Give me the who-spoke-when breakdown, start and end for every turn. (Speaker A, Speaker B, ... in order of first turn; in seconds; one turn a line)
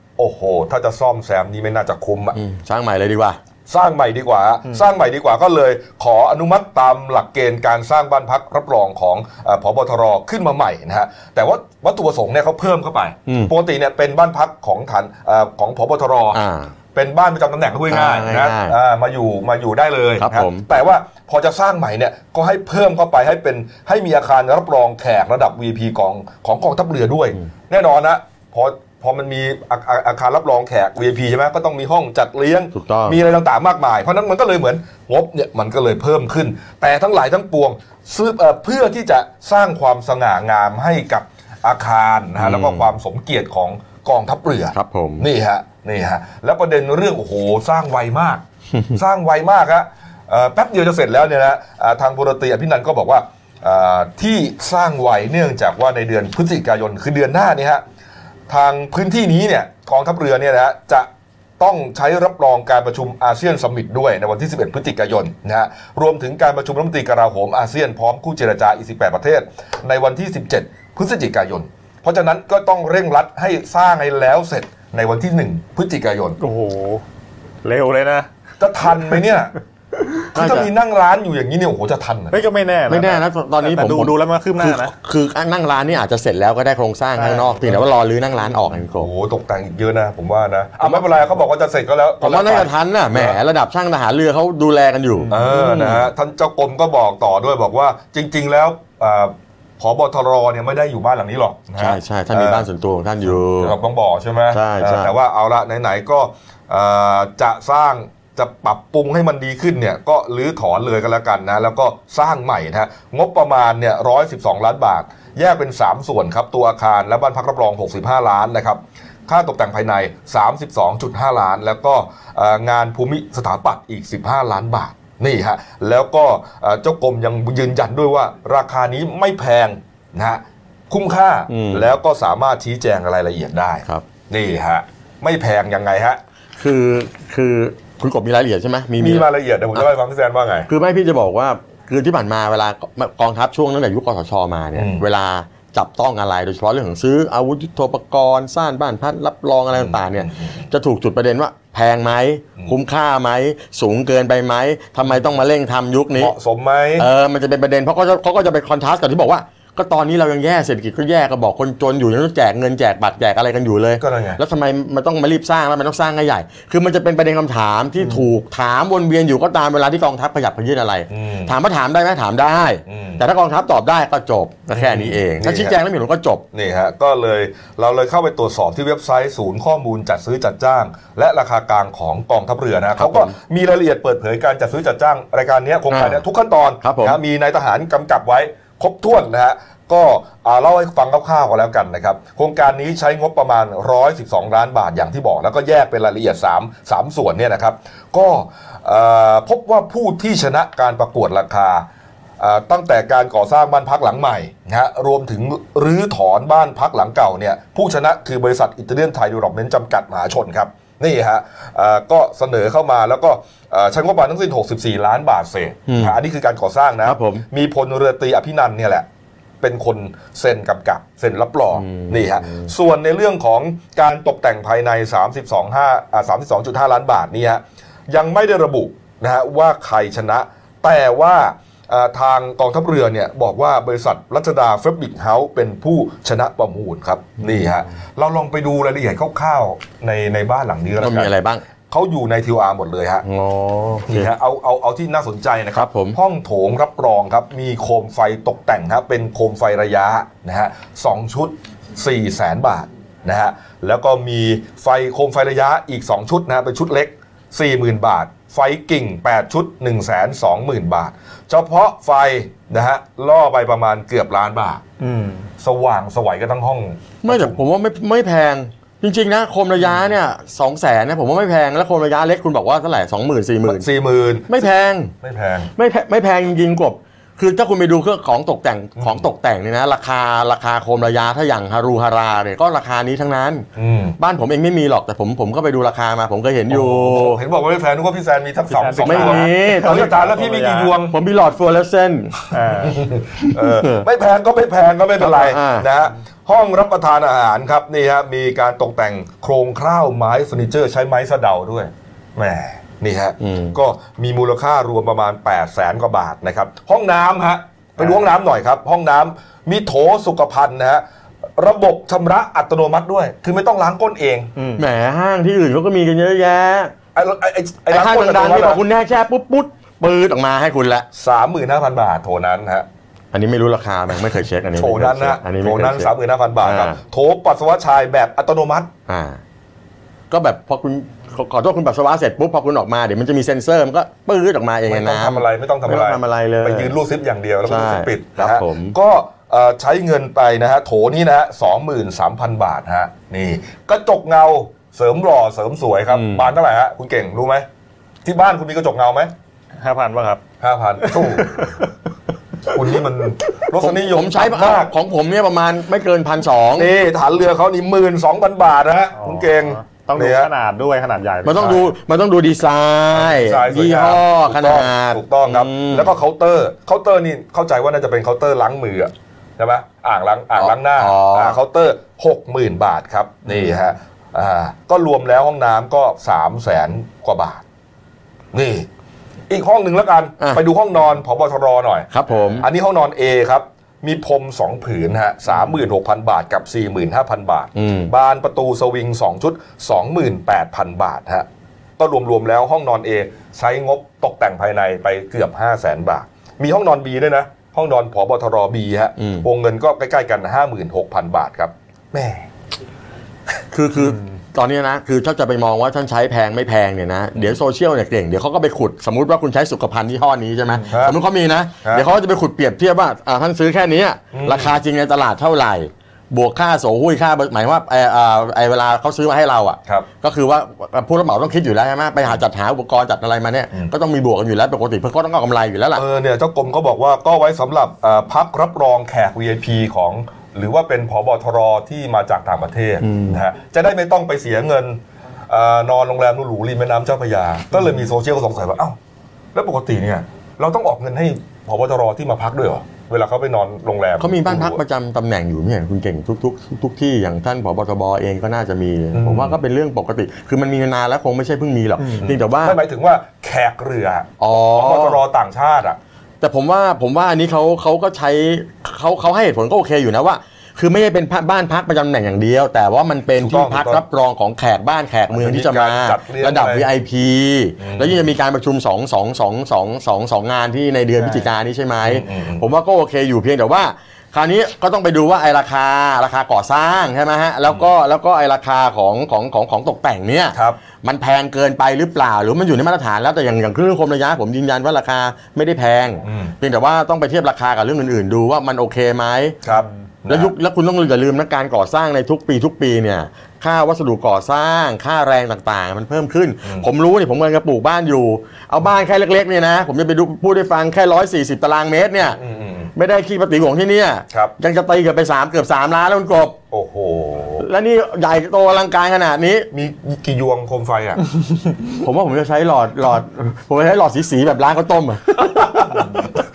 Speaker A: 0.2-2.4
Speaker B: 2.3-3.4
Speaker A: 3.7-16.4
Speaker B: 13.3-13.5
Speaker B: 16.3-16.7
Speaker A: 16.9-48.4
Speaker B: 17.9-18.8
Speaker B: 20.2-20.6
Speaker B: 32.7-33.2
Speaker B: 42.4-42.9
Speaker B: 44.7-45.2
Speaker B: 48.7-49.0
Speaker A: 48.9-57.8
Speaker A: 58.5-61.1
Speaker A: 61.6-76.4
Speaker C: 76.4-77.0
Speaker C: 77.6-78.3
Speaker A: 78.6-79.5
Speaker B: 80.3-80.7
Speaker A: 80.3-82.4
Speaker C: 82.3-84.9
Speaker B: 82.9-89.1
Speaker C: 87.2-87.5
Speaker A: 88.9-93.4
Speaker B: 92.2-96.1
Speaker C: 95.2-95.5
Speaker A: 95.3-102.7
Speaker B: 101.8-103.7
Speaker A: 103.2-136.2
Speaker B: 104.5-105.1
Speaker B: 131.5-131.8
Speaker B: 136.6-139.3
Speaker A: 139.0-140.7
Speaker B: 140.7-156.3
Speaker A: 144.8-145.0
Speaker A: 149.7-150.6
Speaker A: 156.1-157.1
Speaker B: 157.0-176.4
Speaker A: 164.0-164.4
Speaker A: 171.1-171.5
Speaker A: 172.9-173.2
Speaker A: 174.7-175.8
Speaker A: 176.5-201.8
Speaker B: 183.0-183.3
Speaker B: 185.9-186.2
Speaker B: 186.8-187.2
Speaker A: 202.4-219.0
Speaker B: 215.9-216.2
Speaker B: 217.0-217.4
Speaker A: 219.6-241.3
Speaker B: 221.7-222.7
Speaker B: 241.0-241.6
Speaker A: 241.9-243.2
Speaker B: 243.2-244.3
Speaker A: 244.1-264.8
Speaker B: 245.7-246.2
Speaker C: 265.0-265.4
Speaker A: 265.6-267.6
Speaker B: 267.2-273.9
Speaker A: 273.6-274.7
Speaker B: 274.5-275.1
Speaker A: 275.2-275.7
Speaker B: 275.8-283.7
Speaker A: 279.0-279.2
Speaker A: 283.8-284.2
Speaker B: 284.2-287.4
Speaker A: 286.7-291.1
Speaker C: 288.7-290.9
Speaker B: 289.0-290.1
Speaker B: 291.1-292.4
Speaker C: 292.5-293.0
Speaker A: 292.7-311.0
Speaker B: 293.5-294.0
Speaker B: 295.2-295.9
Speaker B: 303.4-303.7
Speaker A: 311.6-314.5
Speaker C: 314.6-314.8
Speaker B: 314.8-316.9
Speaker A: 317.1-318.8
Speaker B: 317.9-321.1
Speaker A: 321.1-322.9
Speaker B: 323.3-327.0
Speaker A: 324.8-328.9
Speaker B: 329.1-329.4
Speaker B: 330.3-336.9
Speaker A: 334.9-347.6
Speaker B: 337.6-338.9
Speaker B: 346.1-346.5
Speaker A: 348.2-349.3
Speaker C: 349.8-350.4
Speaker A: 350.6-351.7
Speaker C: 351.1-351.8
Speaker A: 352.7-354.9
Speaker B: 353.7-356.9
Speaker A: 356.7-360.5
Speaker C: 359.2-361.9
Speaker B: 361.4-366.1
Speaker A: 363.1-377.6
Speaker B: 370.6-371.6
Speaker A: 378.5-378.9
Speaker A: 379.5-382.1
Speaker B: 382.1-382.6
Speaker C: 382.3-382.6
Speaker A: 382.6-391.5
Speaker B: 387.8-388.1
Speaker A: 392.0-402.5
Speaker B: 399.2-399.4
Speaker B: 403.7-426.0
Speaker A: 410.9-411.2
Speaker A: 414.3-414.8
Speaker A: 425.9-439.0
Speaker B: 433.0-433.4
Speaker A: 439.5-444.8
Speaker B: 444.2-452.8
Speaker A: 449.1-449.6
Speaker A: 452.2-456.0
Speaker B: 454.4-455.2
Speaker B: 456.4-489.6
Speaker A: 463.4-464.0
Speaker A: 465.3-466.9
Speaker A: 467.8-468.2
Speaker A: 472.0-472.7
Speaker A: 480.5-480.8
Speaker A: 486.2-486.5
Speaker A: 489.6-490.5
Speaker B: 490.3-502.4
Speaker A: 502.3-502.9
Speaker B: 502.9-506.6
Speaker A: 506.7-507.6
Speaker B: 507.6-509.7
Speaker A: 509.7-511.2
Speaker B: 512.0-516.1
Speaker A: 515.9-516.2